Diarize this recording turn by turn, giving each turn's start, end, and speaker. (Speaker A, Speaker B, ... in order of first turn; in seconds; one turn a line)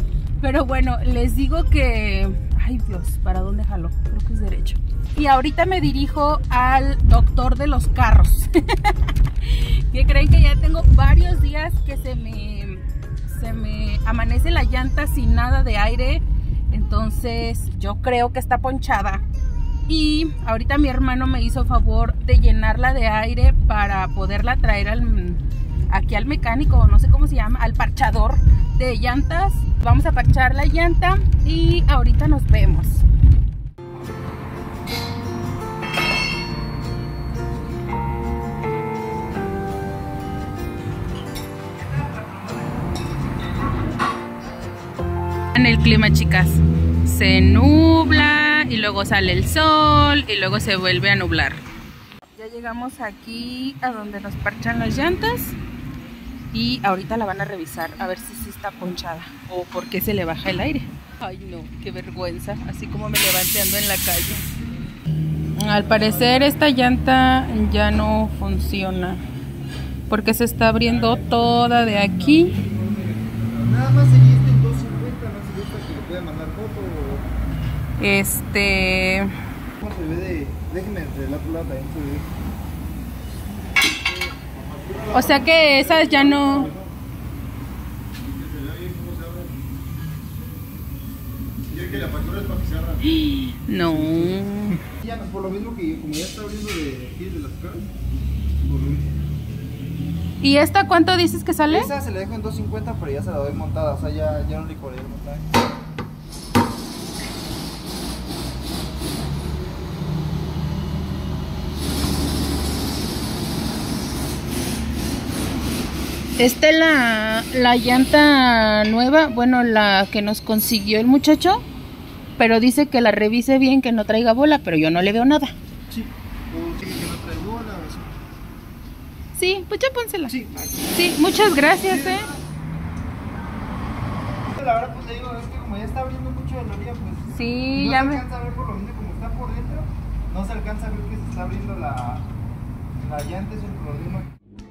Speaker A: 0.4-19.2
Speaker A: 19.9-33.0
Speaker A: 45.5-51.6
Speaker A: 52.3-55.5
Speaker A: 56.5-64.4
Speaker A: 65.6-69.2
Speaker B: 65.9-66.5
Speaker A: 70.1-72.5
Speaker B: 70.9-77.3
Speaker A: 78.0-79.3
Speaker B: 79.8-82.3
Speaker B: 84.4-86.9
Speaker A: 85.1-86.7
Speaker B: 88.2-89.5
Speaker B: 91.7-93.0
Speaker A: 93.0-94.8
Speaker B: 93.9-97.9
Speaker B: 98.6-99.1
Speaker A: 100.4-101.9
Speaker B: 101.7-105.4
Speaker A: 116.4-121.6
Speaker A: 122.4-125.5
Speaker B: 125.9-128.2
Speaker A: 129.3-130.3
Speaker B: 130.3-130.8
Speaker A: 130.9-132.3
Speaker B: 131.8-132.3
Speaker B: 134.5-142.3
Speaker A: 137.3-138.2
Speaker B: 143.0-144.3